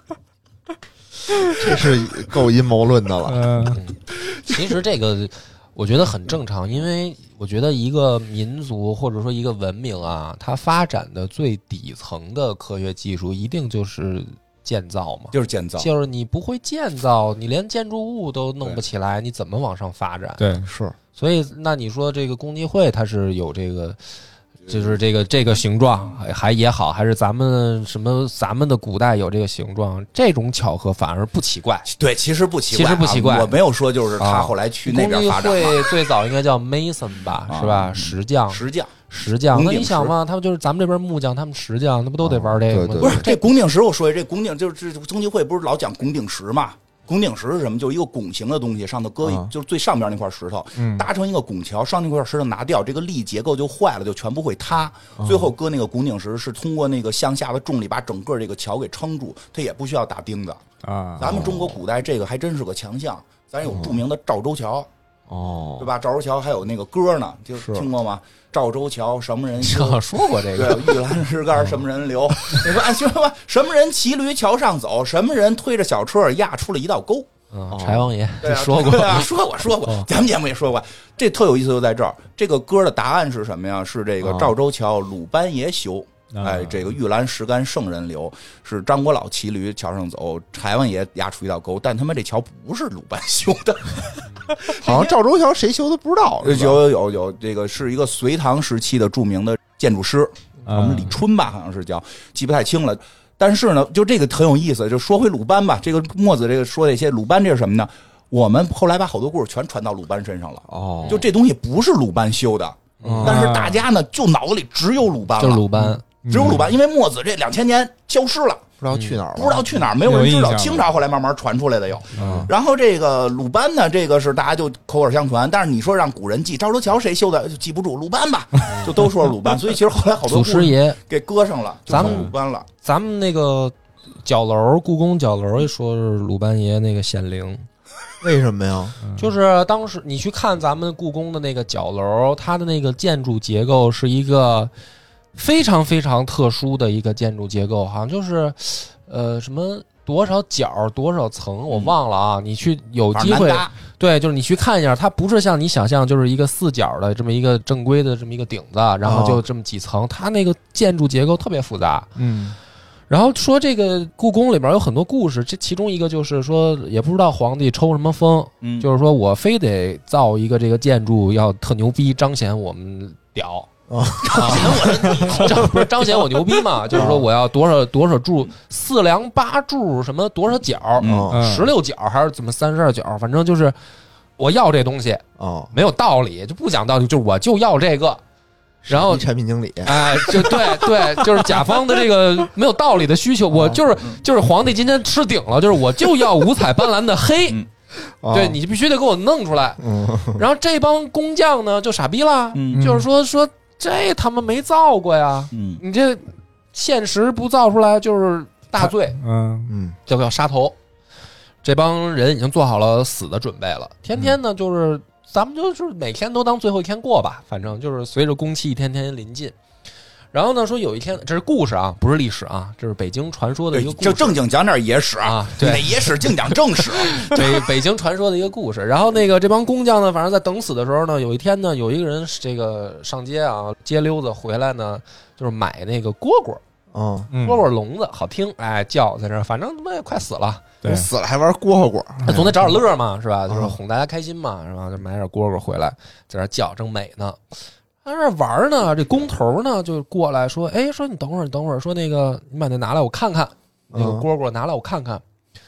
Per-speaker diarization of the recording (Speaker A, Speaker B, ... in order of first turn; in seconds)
Speaker A: 1.5-3.7, 20.6-20.9, 42.2-43.3, 49.2-49.5, 55.2-55.5, 61.2-61.8, 63.6-64.0, 65.3-65.9, 67.6-67.9, 77.7-78.1, 84.2-84.5, 94.8-96.8, 110.7-111.2, 113.0-113.5, 118.8-119.7, 122.2-122.5, 138.2-139.0, 159.0-159.4, 173.9-174.9, 176.9-177.3, 181.0-181.4, 185.4-185.7, 188.8-191.1, 198.2-198.6, 199.8-200.4, 209.7-210.0, 236.9-237.3, 240.8-242.7, 243.5-243.8, 253.9-254.3
Speaker B: 3.3-3.8, 20.4-20.7, 60.8-61.4, 86.3-86.8, 100.7-101.1, 113.2-113.8, 115.8-116.7, 120.0-120.9, 122.2-122.5, 132.0-132.3, 139.0-139.3, 162.2-162.6, 181.3-181.7, 202.8-203.1, 209.2-209.7, 237.3-237.7, 240.8-241.1
Speaker C: 3.7-20.6, 21.2-24.0, 24.7-31.9, 32.7-33.5, 34.2-43.5, 69.6-71.2, 77.5-79.3, 79.8-80.1, 113.0-113.4, 115.4-116.2, 118.9-119.2, 128.7-128.9, 130.3-131.0, 131.9-132.3, 132.8-137.7, 139.2-144.7, 145.3-162.1, 163.1-173.7, 174.3-183.8, 184.4-188.2, 188.9-189.3, 189.8-197.6, 198.3-209.2, 210.1-210.8, 211.6-219.6, 220.3-224.4, 225.2-226.3, 227.0-236.6, 237.4-240.7, 242.3-247.4, 248.0-255.2
Speaker D: 15.3-15.9, 31.9-35.9, 37.5-38.9, 39.5-40.1, 43.0-60.6, 61.2-64.9, 65.8-70.0, 70.5-77.3, 78.4-95.2, 96.4-115.7, 116.3-118.7, 119.3-132.7, 153.1-153.7, 168.6-168.9, 174.3-175.6, 181.0-181.3, 202.6-202.9, 205.5-205.8, 223.7-227.4